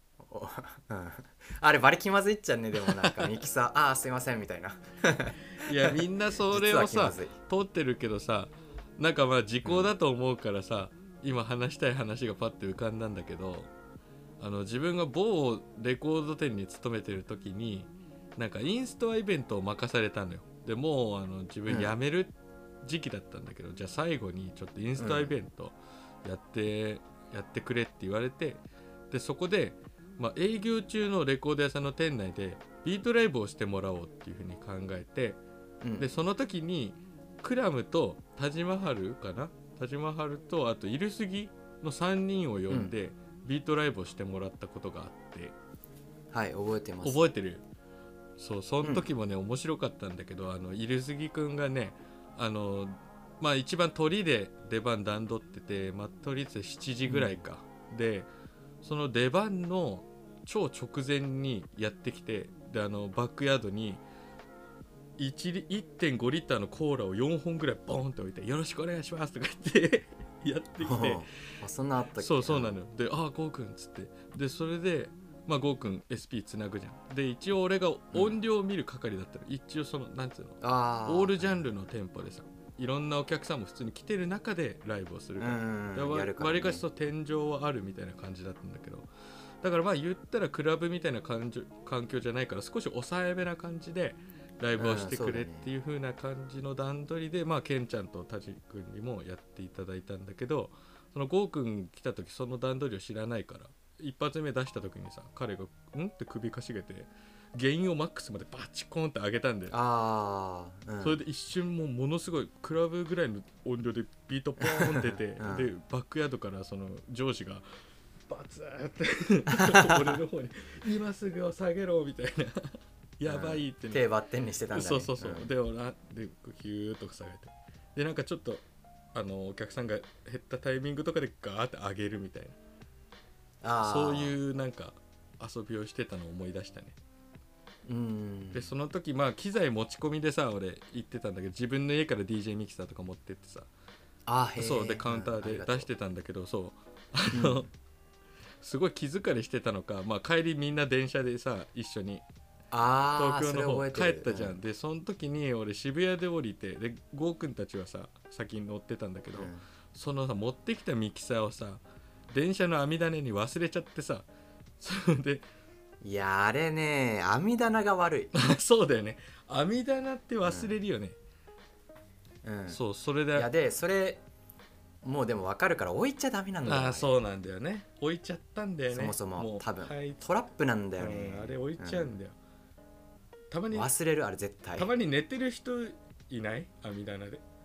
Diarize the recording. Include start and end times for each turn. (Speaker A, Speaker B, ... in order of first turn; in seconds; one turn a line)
Speaker A: 0.2-5.9
Speaker B: 2.9-3.3
Speaker B: 5.5-13.7
Speaker A: 6.5-7.3
Speaker A: 9.7-9.9
Speaker B: 14.4-35.4
Speaker A: 21.7-21.9
Speaker A: 25.0-25.3
Speaker A: 35.8-36.1
Speaker B: 36.0-45.5
Speaker A: 46.3-47.3
Speaker B: 47.0-47.6
Speaker B: 48.4-58.3
Speaker A: 57.0-57.4
Speaker B: 58.8-64.0
Speaker B: 65.2-71.2
Speaker A: 70.8-72.8
Speaker B: 72.2-89.1
Speaker A: 78.1-78.4
Speaker A: 80.6-81.6
Speaker A: 85.4-86.8
Speaker B: 89.6-109.8
Speaker A: 94.8-95.7
Speaker A: 109.7-111.2
Speaker B: 111.0-117.7
Speaker A: 114.6-115.7
Speaker B: 118.3-124.1
Speaker A: 119.5-120.2
Speaker A: 123.3-125.5
Speaker B: 124.7-132.6
Speaker A: 133.6-134.4
Speaker B: 133.8-137.0
Speaker A: 137.9-138.7
Speaker B: 138.5-143.7
Speaker A: 144.3-145.9
Speaker B: 144.6-147.7
Speaker A: 147.3-147.7
Speaker B: 148.6-152.2
Speaker A: 152.7-154.6
Speaker B: 153.2-164.3
Speaker A: 159.3-159.7
Speaker B: 164.8-165.4
Speaker A: 166.0-168.5
Speaker B: 168.3-171.2
Speaker A: 170.4-170.7
Speaker A: 172.4-172.8
Speaker B: 172.7-173.5
Speaker A: 173.3-174.2
Speaker A: 175.0-177.1
Speaker B: 176.6-180.3
Speaker A: 178.9-182.2
Speaker B: 181.0-182.3
Speaker B: 183.5-183.9
Speaker A: 183.7-184.9
Speaker B: 184.8-187.4